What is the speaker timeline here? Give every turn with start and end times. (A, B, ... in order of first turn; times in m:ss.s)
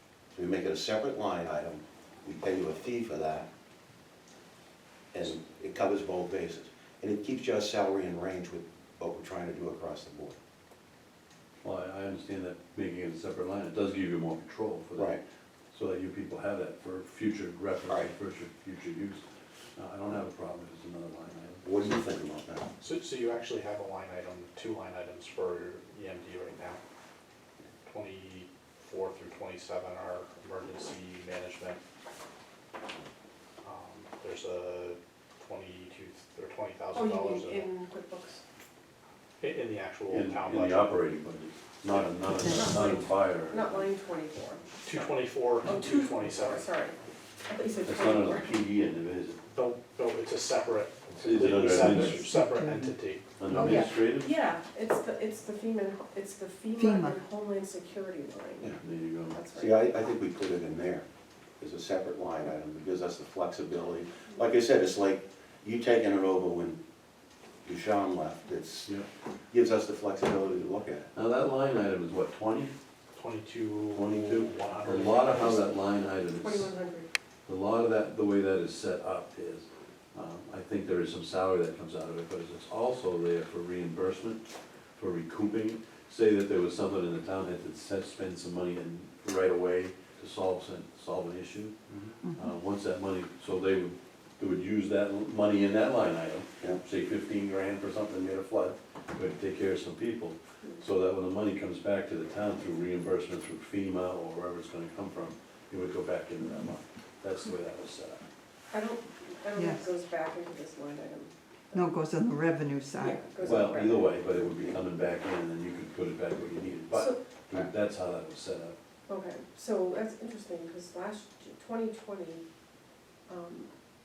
0:00.4-0:03.5 A
0:05.1-0:10.4 A
0:11.6-0:15.2 B
0:15.0-0:15.2 A
0:15.7-0:19.2 B
0:19.8-0:21.6 B
0:21.6-0:22.7 A
0:22.8-0:26.8 C
0:27.8-0:31.8 C
0:33.6-0:37.7 C
0:36.9-0:38.4 D
0:39.4-0:41.0 C
0:40.1-0:43.9 B
0:42.3-0:43.1 E
0:42.4-0:44.8 D
0:44.8-0:46.6 C
0:45.6-0:48.5 D
0:47.8-0:49.4 B
0:49.5-0:53.2 C
0:51.2-0:52.2 B
0:51.7-0:53.9 E
0:53.4-0:54.3 B
0:53.5-0:58.7 D
0:56.7-0:57.2 E
0:58.8-0:59.4 B
0:59.3-0:59.8 D
0:59.5-1:01.0 A
1:01.6-1:06.8 A
1:07.6-1:08.9 A
1:09.5-1:11.1 A
1:11.1-1:12.7 B
1:13.1-1:15.5 C
1:13.9-1:16.7 B
1:15.1-1:15.7 D
1:16.4-1:17.1 D
1:17.4-1:31.8 B
1:31.9-1:32.1 A
1:32.2-1:32.6 E
1:32.3-1:48.2 B
1:48.7-1:52.0 D
1:49.5-1:49.9 E
1:51.7-1:53.3 E
1:53.0-1:54.2 D
1:53.4-1:58.8 B
1:53.4-1:54.8 A
1:56.9-1:57.2 D
1:59.1-2:02.4 D
2:03.3-2:03.7 D